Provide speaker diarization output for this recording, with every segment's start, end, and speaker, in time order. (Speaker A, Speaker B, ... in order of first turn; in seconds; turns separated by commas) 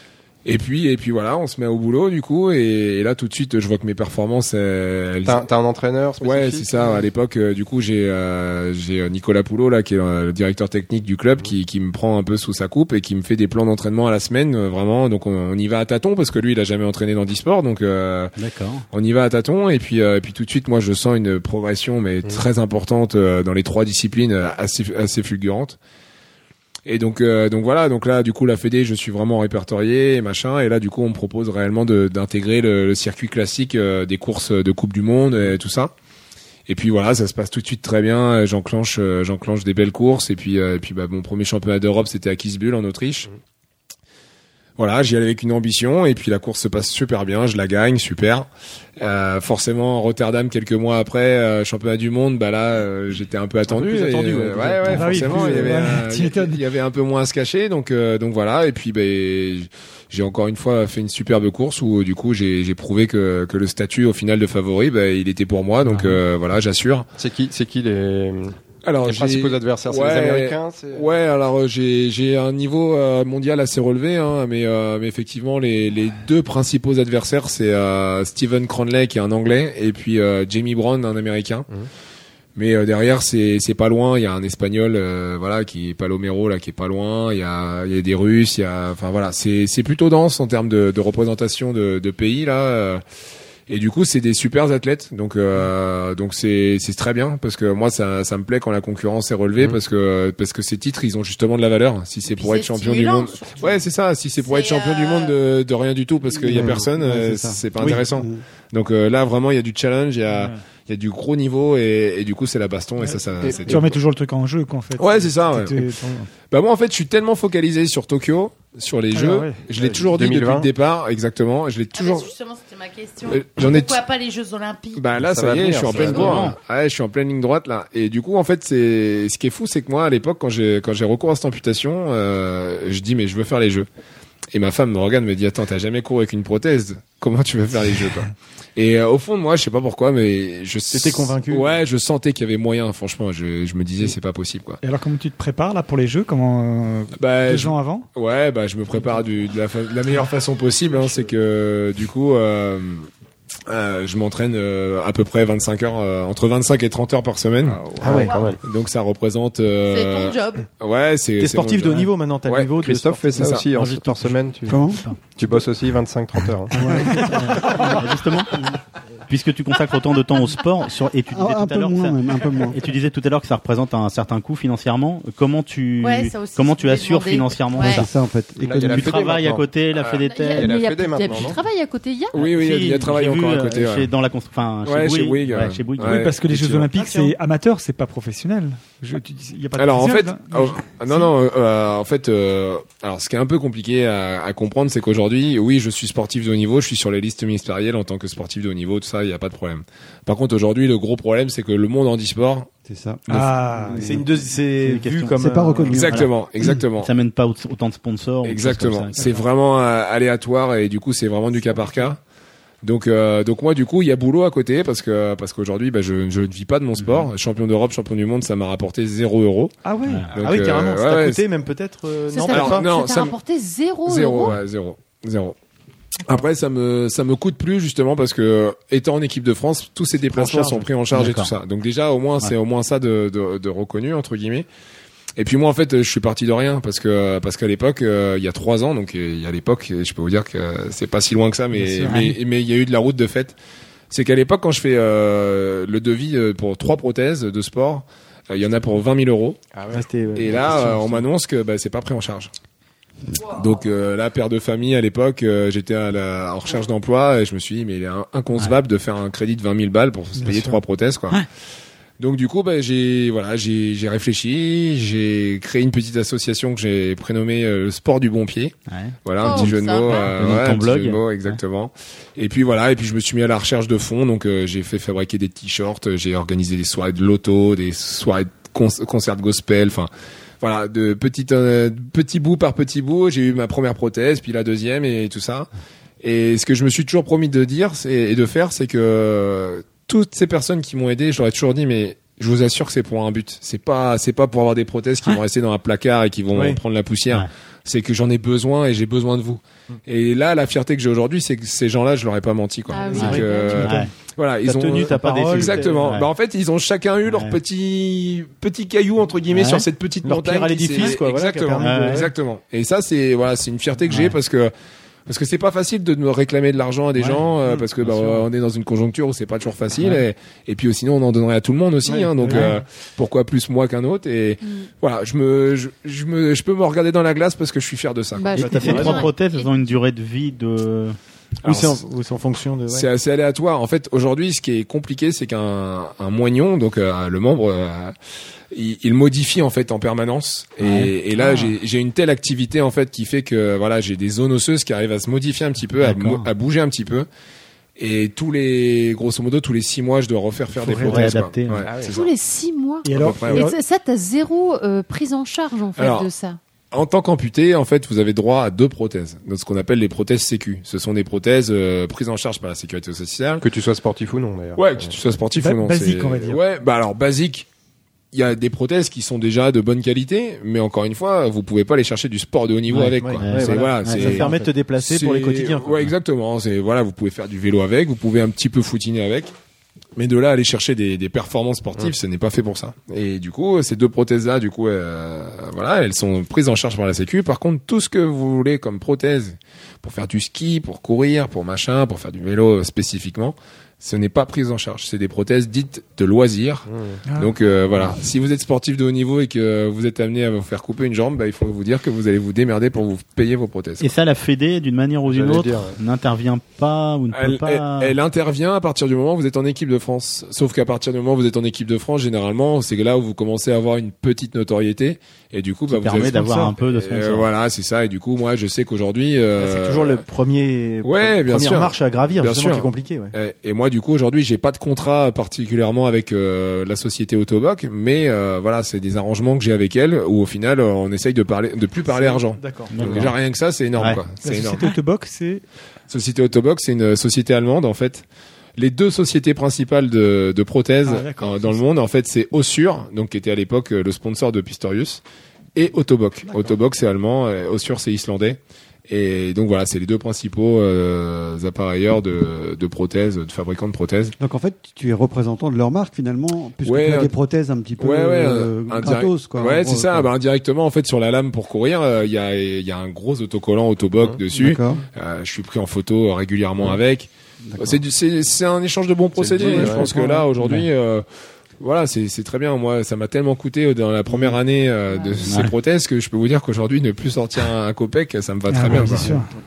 Speaker A: 0.5-5.5, Speaker B: 5.2-7.0, Speaker A: 6.2-18.3, Speaker C: 18.4-18.9, Speaker A: 18.9-25.8, Speaker A: 26.9-35.9, Speaker A: 36.7-43.3, Speaker A: 44.8-48.5, Speaker A: 49.0-67.1, Speaker D: 53.7-55.9, Speaker E: 54.9-56.6, Speaker E: 65.9-66.1, Speaker B: 67.2-71.1, Speaker A: 68.8-81.7, Speaker A: 82.6-93.0, Speaker A: 93.7-114.0, Speaker F: 102.2-103.8, Speaker F: 104.4-105.4, Speaker G: 106.4-108.4, Speaker E: 110.3-110.6, Speaker E: 113.0-116.3, Speaker A: 115.0-115.9, Speaker A: 116.5-122.3, Speaker E: 119.1-119.6, Speaker B: 120.1-120.7, Speaker F: 121.9-125.0, Speaker A: 123.3-124.0, Speaker A: 125.0-133.9, Speaker B: 125.2-126.5, Speaker C: 125.9-126.6, Speaker A: 134.5-144.8, Speaker D: 140.9-141.8, Speaker E: 144.8-148.1, Speaker A: 147.2-153.1, Speaker A: 153.7-162.8, Speaker B: 157.8-158.6, Speaker D: 158.0-158.3, Speaker F: 159.9-160.7, Speaker D: 161.4-163.6, Speaker B: 162.8-164.8, Speaker A: 163.3-163.7, Speaker C: 163.8-164.1, Speaker G: 164.7-165.0, Speaker B: 165.4-167.0, Speaker G: 166.7-168.1, Speaker C: 166.9-168.6, Speaker C: 169.3-178.1, Speaker G: 171.3-172.8, Speaker F: 176.0-178.1, Speaker G: 177.8-179.4, Speaker B: 178.6-181.6, Speaker C: 178.9-180.8, Speaker F: 180.1-180.6, Speaker H: 180.4-182.4, Speaker A: 182.3-184.1, Speaker C: 182.3-186.9, Speaker A: 184.8-186.4, Speaker E: 186.0-191.3, Speaker D: 186.9-187.3, Speaker A: 189.8-202.7, Speaker G: 202.8-206.3, Speaker E: 203.3-204.1, Speaker D: 204.0-206.1, Speaker C: 204.9-209.4, Speaker A: 205.9-207.1, Speaker A: 208.4-212.2, Speaker A: 212.8-219.7, Speaker C: 217.0-217.3, Speaker E: 219.8-220.3, Speaker A: 220.3-221.4, Speaker D: 220.4-222.9, Speaker H: 222.3-224.6, Speaker A: 222.5-223.4, Speaker A: 224.1-225.6, Speaker A: 226.3-234.7, Speaker D: 230.3-230.9, Speaker C: 231.1-231.5, Speaker A: 235.4-243.6, Speaker E: 241.8-242.1, Speaker C: 242.1-242.3, Speaker A: 244.1-249.6, Speaker B: 249.7-250.1, Speaker D: 249.9-251.3, Speaker A: 250.3-252.5, Speaker A: 253.4-261.4, Speaker A: 262.2-280.1, Speaker C: 268.9-271.6, Speaker F: 269.4-270.2, Speaker A: 280.6-285.7, Speaker A: 286.2-314.7, Speaker D: 296.5-296.8, Speaker H: 302.9-303.9, Speaker D: 303.1-304.1, Speaker C: 303.1-304.1, Speaker D: 304.6-306.2, Speaker C: 305.0-306.3, Speaker C: 307.3-307.6, Speaker C: 309.5-309.9, Speaker D: 310.2-312.3, Speaker C: 311.8-312.3, Speaker C: 314.1-314.4, Speaker A: 315.3-329.0, Speaker C: 318.0-318.4, Speaker D: 322.1-322.8, Speaker H: 324.6-324.9, Speaker H: 328.4-329.7, Speaker C: 328.6-331.2, Speaker D: 328.6-329.3, Speaker A: 331.6-332.0, Speaker D: 331.6-333.1, Speaker A: 332.9-338.1, Speaker A: 338.7-347.3, Speaker C: 340.8-341.1, Speaker C: 346.0-346.5, Speaker A: 348.0-352.3, Speaker E: 350.8-351.3, Speaker C: 351.0-351.9, Speaker B: 351.8-352.1, Speaker H: 352.0-356.6, Speaker E: 353.1-353.8, Speaker A: 353.1-353.7, Speaker A: 355.9-356.3, Speaker A: 356.9-363.6, Speaker B: 363.6-365.1, Speaker A: 364.8-367.7, Speaker E: 365.6-366.6, Speaker A: 368.3-379.5, Speaker C: 372.9-374.7, Speaker D: 373.0-376.1, Speaker A: 380.2-404.1, Speaker B: 396.9-397.2, Speaker E: 397.3-397.6, Speaker C: 404.0-408.1, Speaker B: 405.3-406.0, Speaker A: 407.3-420.2, Speaker C: 415.9-417.5, Speaker D: 419.6-423.3, Speaker A: 421.0-434.9, Speaker D: 432.1-433.2, Speaker C: 432.9-433.4, Speaker C: 434.0-434.2, Speaker E: 434.4-435.6, Speaker A: 436.1-438.2, Speaker A: 438.8-445.2, Speaker E: 441.1-441.8, Speaker A: 445.8-454.4, Speaker G: 454.4-460.3, Speaker A: 456.8-457.3, Speaker A: 458.0-471.3, Speaker G: 464.5-465.0, Speaker G: 467.7-468.0, Speaker B: 469.4-470.2, Speaker G: 469.6-470.5, Speaker A: 471.8-479.4, Speaker H: 475.1-475.4, Speaker C: 475.4-475.7, Speaker E: 478.7-479.5